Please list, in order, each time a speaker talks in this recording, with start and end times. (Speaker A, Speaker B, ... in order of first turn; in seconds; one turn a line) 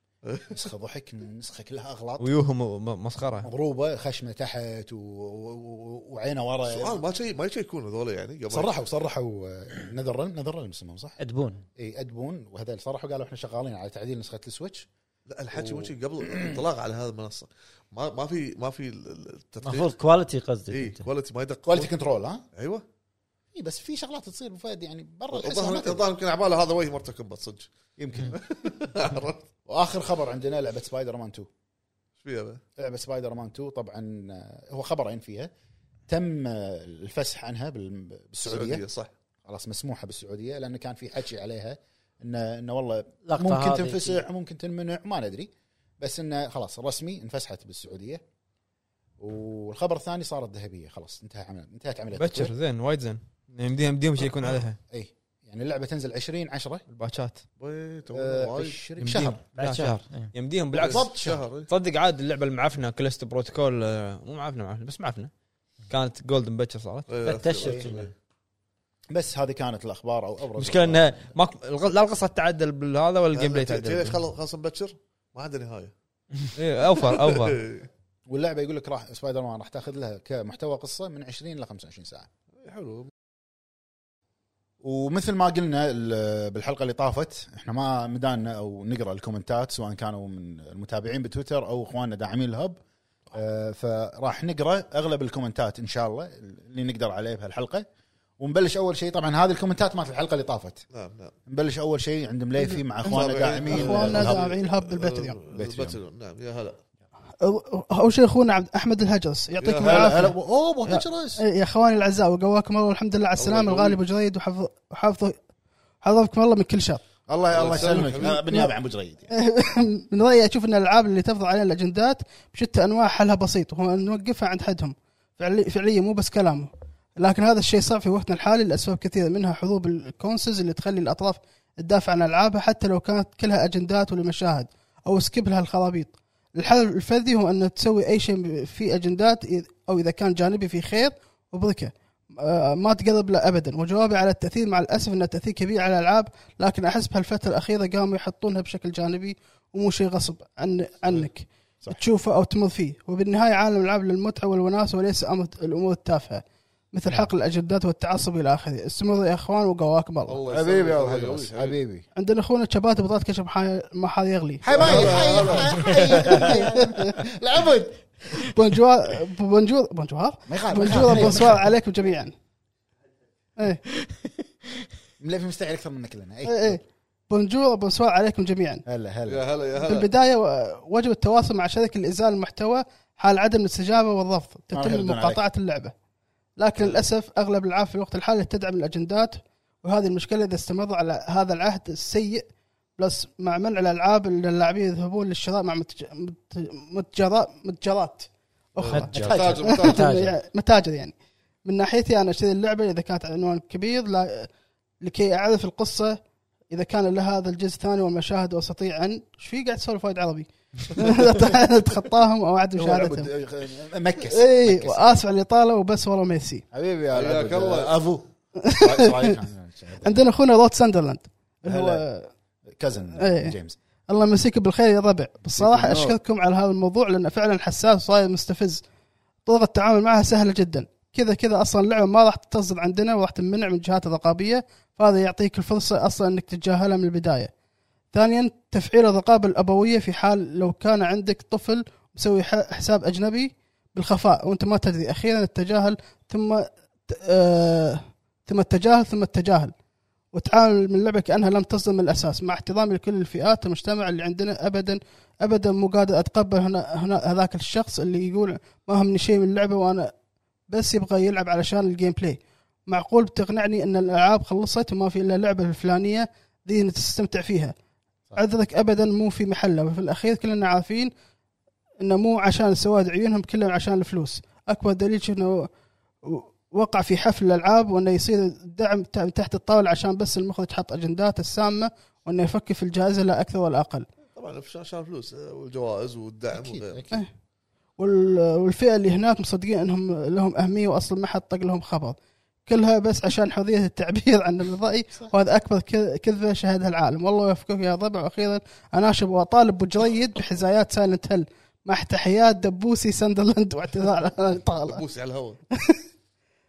Speaker A: 0.2-0.5
Speaker B: 0.5-2.3
Speaker C: 2.2-3.5
Speaker B: 3.4-7.0
Speaker A: 6.7-8.7
Speaker B: 8.5-11.2
Speaker D: 11.2-11.6
Speaker B: 11.8-14.9
Speaker A: 15.3-19.9
Speaker B: 15.5-16.6
Speaker D: 19.6-21.0
Speaker A: 20.7-21.9
Speaker B: 21.7-22.4
Speaker A: 22.5-22.8
Speaker B: 23.5-26.1
Speaker A: 25.3-27.7
Speaker B: 28.0-28.4
Speaker A: 28.3-29.5
Speaker B: 29.6-31.5
Speaker A: 32.2-32.6
Speaker B: 32.8-35.5
Speaker B: 36.1-38.8
Speaker A: 38.4-39.1
Speaker B: 39.4-48.2
Speaker D: 43.2-44.2
Speaker B: 49.2-52.5
Speaker C: 52.1-54.8
Speaker B: 54.9-56.8
Speaker C: 56.9-57.4
Speaker A: 57.6-58.8
Speaker B: 58.1-59.4
Speaker C: 59.0-61.1
Speaker D: 59.5-60.3
Speaker A: 60.7-61.7
Speaker B: 60.8-61.4
Speaker C: 61.7-65.3
Speaker C: 65.9-67.1
Speaker A: 67.1-68.1
Speaker D: 67.2-68.1
Speaker B: 67.6-67.9
Speaker B: 69.1-71.3
Speaker C: 70.6-74.2
Speaker A: 73.3-75.9
Speaker C: 76.5-77.6
Speaker A: 77.0-77.9
Speaker B: 78.3-82.3
Speaker A: 82.6-83.1
Speaker B: 84.8-92.8
Speaker B: 93.3-97.8
Speaker B: 98.4-100.8
Speaker A: 100.9-101.3
Speaker B: 101.5-104.5
Speaker E: 102.6-105.4
Speaker A: 103.0-106.8
Speaker B: 105.5-106.0
Speaker E: 107.4-115.4
Speaker A: 109.6-110.3
Speaker B: 109.8-111.4
Speaker A: 113.4-114.0
Speaker E: 116.0-117.0
Speaker B: 117.3-119.3
Speaker A: 117.5-118.4
Speaker E: 118.2-118.7
Speaker E: 119.3-160.4
Speaker A: 160.2-161.8
Speaker B: 160.5-162.1
Speaker E: 162.2-167.2
Speaker B: 164.6-168.0
Speaker A: 164.7-166.1
Speaker E: 168.4-172.3
Speaker B: 170.5-171.7
Speaker B: 175.2-176.8
Speaker E: 176.4-178.8
Speaker B: 178.8-179.5
Speaker A: 179.3-180.1
Speaker E: 179.8-185.9
Speaker B: 184.7-185.4
Speaker E: 186.6-192.5
Speaker A: 186.8-187.0
Speaker E: 193.0-204.5
Speaker A: 198.8-200.1
Speaker D: 198.8-200.3
Speaker E: 205.0-206.2
Speaker E: 206.7-213.3
Speaker B: 212.8-215.2
Speaker E: 214.2-216.6
Speaker B: 216.7-220.2
Speaker A: 217.1-217.9
Speaker E: 218.6-219.3
Speaker E: 220.0-222.3
Speaker B: 221.6-222.0
Speaker B: 222.7-223.8
Speaker E: 223.2-223.6
Speaker E: 224.1-228.8
Speaker B: 225.6-226.2
Speaker E: 229.4-237.5
Speaker E: 238.1-249.7
Speaker E: 250.3-260.1
Speaker E: 260.7-267.7
Speaker E: 268.4-271.1
Speaker E: 272.0-275.7
Speaker E: 276.2-284.1
Speaker A: 284.3-287.1
Speaker B: 286.5-287.2
Speaker E: 288.0-292.1
Speaker E: 292.7-305.0
Speaker A: 304.8-305.6